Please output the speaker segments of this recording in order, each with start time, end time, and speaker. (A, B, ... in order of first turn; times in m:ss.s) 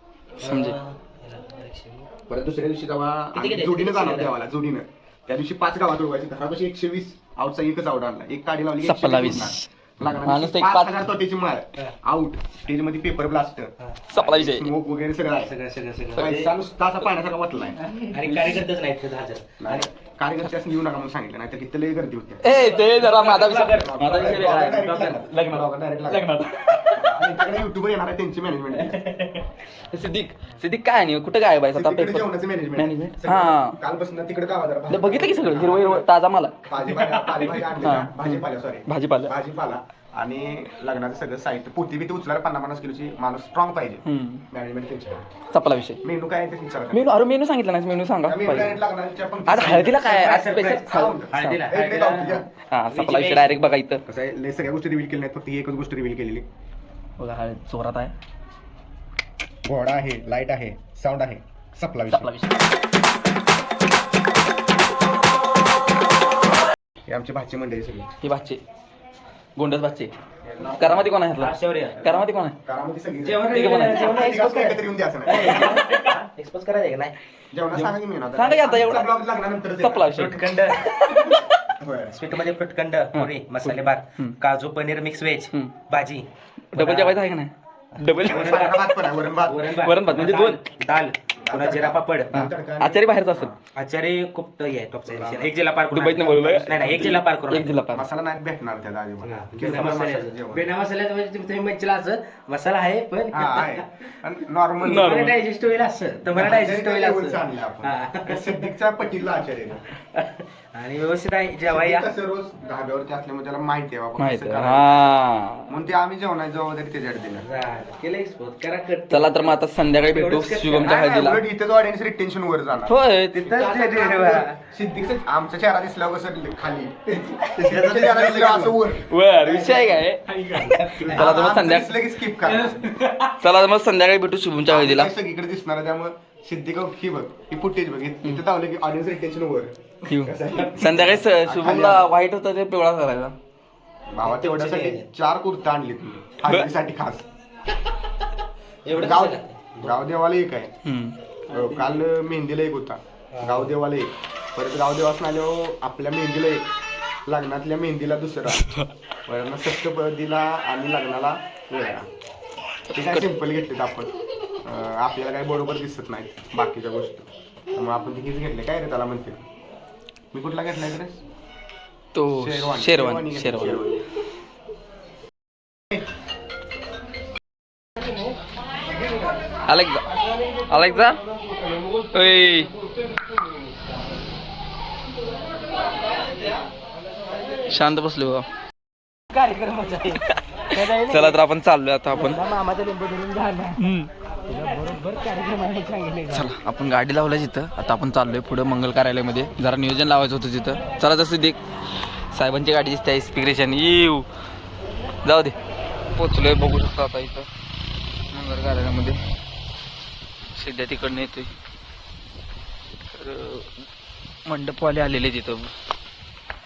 0:00.4-0:00.8 A
0:00.4-0:02.1 B
0:02.3-0:15.5 C
0:03.3-0:04.3 B
0:08.8-0:09.7 A
0:10.2-0:11.1 A
0:14.1-0:14.7 A
0:15.4-0:16.5 B
0:16.1-0:17.8 C
0:17.9-0:19.9 B
0:18.3-0:18.6 A
0:19.6-0:22.5 C
0:22.4-0:27.0 A
0:22.5-0:25.2 B
0:23.3-0:26.3 C
0:26.9-0:29.0 C
0:28.8-0:29.4 B
0:29.9-0:33.8 A
0:31.7-0:36.1 C
0:34.9-0:36.7 A
0:36.7-0:45.2 C
0:37.1-0:37.7 B
0:37.8-0:39.3 A
0:44.0-0:44.4 A
0:45.5-0:46.0 A
0:46.0-0:47.2 C
0:46.9-0:48.8 A
0:48.2-0:52.5 C
0:49.5-0:51.6 A
0:49.9-0:53.6 B
0:52.6-0:54.0 A
0:54.0-0:56.4 C
0:57.2-0:58.1 A
0:59.6-1:02.3 C
1:02.1-1:02.5 A
1:07.0-1:08.1 C
1:08.2-1:08.6 A
1:09.6-1:10.1 A
1:10.4-1:11.1 C
1:10.8-1:12.5 A
1:11.4-1:12.0 B
1:12.6-1:15.7 C
1:13.2-1:17.2 B
1:13.4-1:14.2 A
1:17.5-1:20.2 C
1:18.3-1:19.1 A
1:19.8-1:20.4 A
1:20.1-1:21.0 B
1:21.8-1:22.2 C
1:22.1-1:27.2 B
1:23.1-1:24.4 A
1:26.7-1:28.9 A
1:28.0-1:32.5 B
1:28.2-1:29.7 C
1:29.8-1:30.6 A
1:31.4-1:33.6 C
1:32.3-1:33.5 A
1:33.7-1:37.8 B
1:35.1-1:35.6 C
1:35.9-1:38.1 A
1:37.9-1:40.7 C
1:39.2-1:43.8 B
1:43.3-1:45.2 C
1:44.8-1:48.7 B
1:44.9-1:45.4 A
1:46.3-1:49.8 C
1:50.1-1:52.1 B
1:51.6-1:55.2 C
1:54.2-1:55.7 A
1:55.7-1:57.4 C
1:57.4-2:01.0 B
1:59.1-2:01.4 A
2:00.8-2:03.0 C
2:02.9-2:03.6 A
2:03.4-2:04.6 B
2:03.5-2:06.9 C
2:07.3-2:08.2 B
2:07.5-2:10.0 C
2:09.0-2:11.9 A
2:10.3-2:11.4 B
2:11.0-2:12.8 C
2:12.3-2:13.3 B
2:13.4-2:15.1 A
2:14.7-2:22.1 C
2:20.1-2:23.3 A
2:24.1-2:27.2 C
2:24.2-2:25.1 B
2:28.8-2:30.0 B
2:28.9-2:30.7 C
2:30.8-2:31.2 A
2:31.5-2:31.9 B
2:31.5-2:36.7 C
2:33.3-2:33.7 B
2:37.2-2:38.6 C
2:39.2-2:42.1 C
2:42.9-2:43.4 A
2:42.9-2:44.1 C
2:44.6-2:49.4 C
2:50.3-2:51.2 C
2:52.1-2:53.8 A
2:52.3-2:54.0 C
2:59.6-3:00.0 A
3:00.7-3:01.2 A
3:02.1-3:02.7 A
3:07.7-3:08.4 A
3:09.3-3:11.4 B
3:11.0-3:12.4 A
3:12.1-3:13.8 B
3:13.8-3:14.1 A
3:14.5-3:16.5 B
3:16.3-3:21.6 A
3:22.3-3:24.2 A
3:25.2-3:25.5 A
3:26.1-3:27.5 A
3:28.3-3:29.2 A
3:30.5-3:31.5 A
3:33.1-3:33.7 A
3:34.4-3:35.7 A